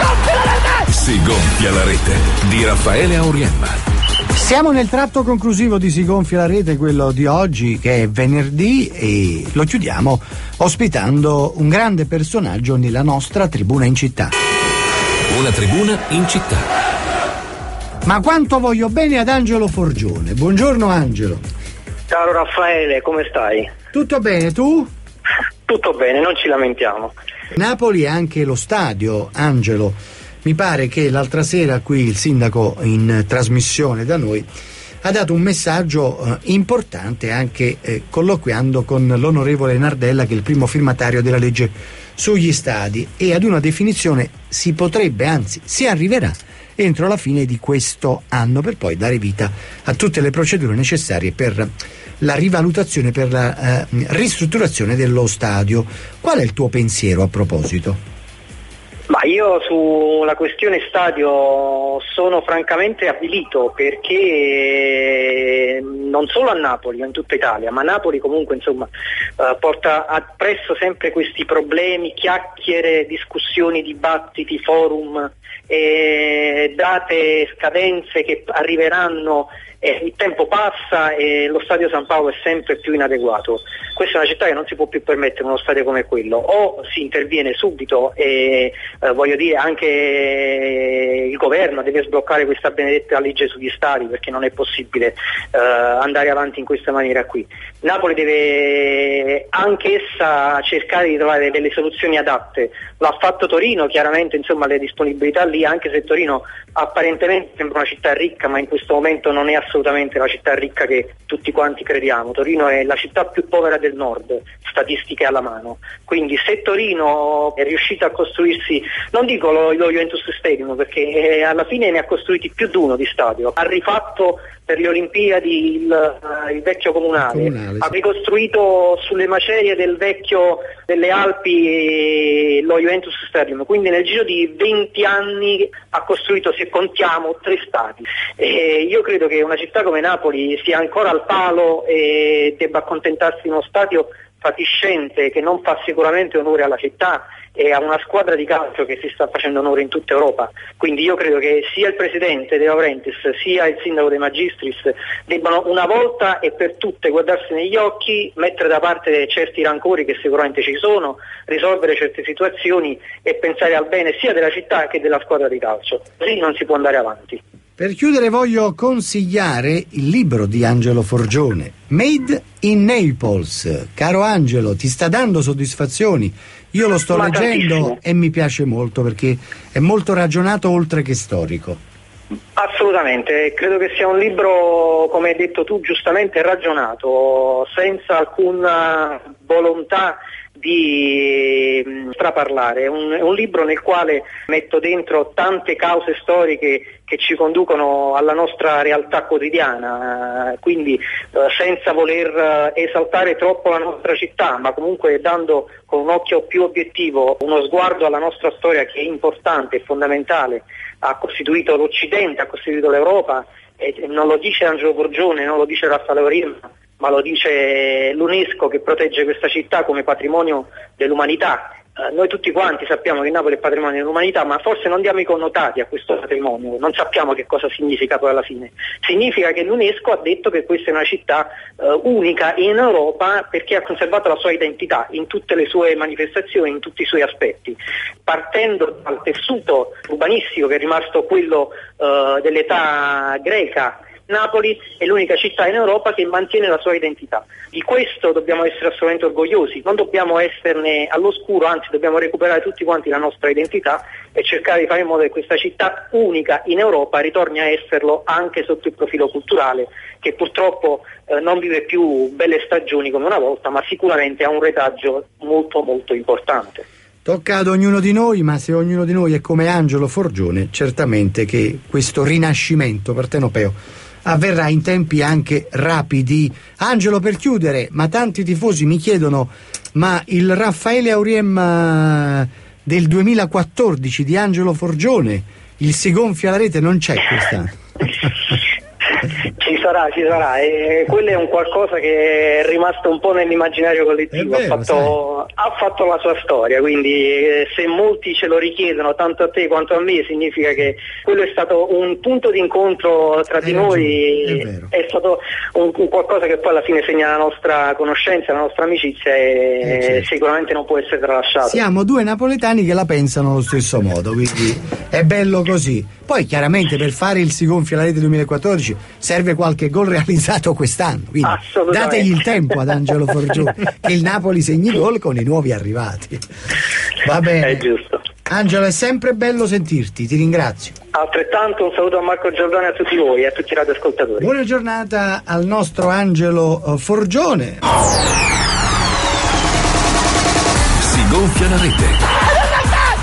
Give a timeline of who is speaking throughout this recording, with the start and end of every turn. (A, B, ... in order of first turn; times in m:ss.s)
0:00.9-0:03.8 A
0:04.4-0:14.3 B
0:15.3-0:16.7 A
0:18.0-0:21.4 B
0:22.1-0:23.7 C
0:23.9-0:24.9 B
0:25.7-0:27.1 C
0:27.5-0:34.4 B
0:35.0-0:51.7 B
0:52.2-0:58.0 B
0:59.1-1:08.9 C
1:09.4-2:47.4 C
2:07.2-2:07.9 B
2:47.8-3:01.8 B
2:57.1-2:58.0 C
3:02.6-4:26.8 C
4:27.2-4:47.8 B
4:49.6-5:11.8 C
4:54.3-4:55.2 B
5:03.6-5:04.9 B
5:09.8-5:10.2 B
5:11.6-5:26.4 B
5:21.4-5:22.7 C
5:27.2-5:27.9 B
5:27.6-5:28.2 C
5:28.5-5:31.0 B
5:31.1-5:34.5 C
5:34.4-5:37.8 B
5:41.0-5:42.2 A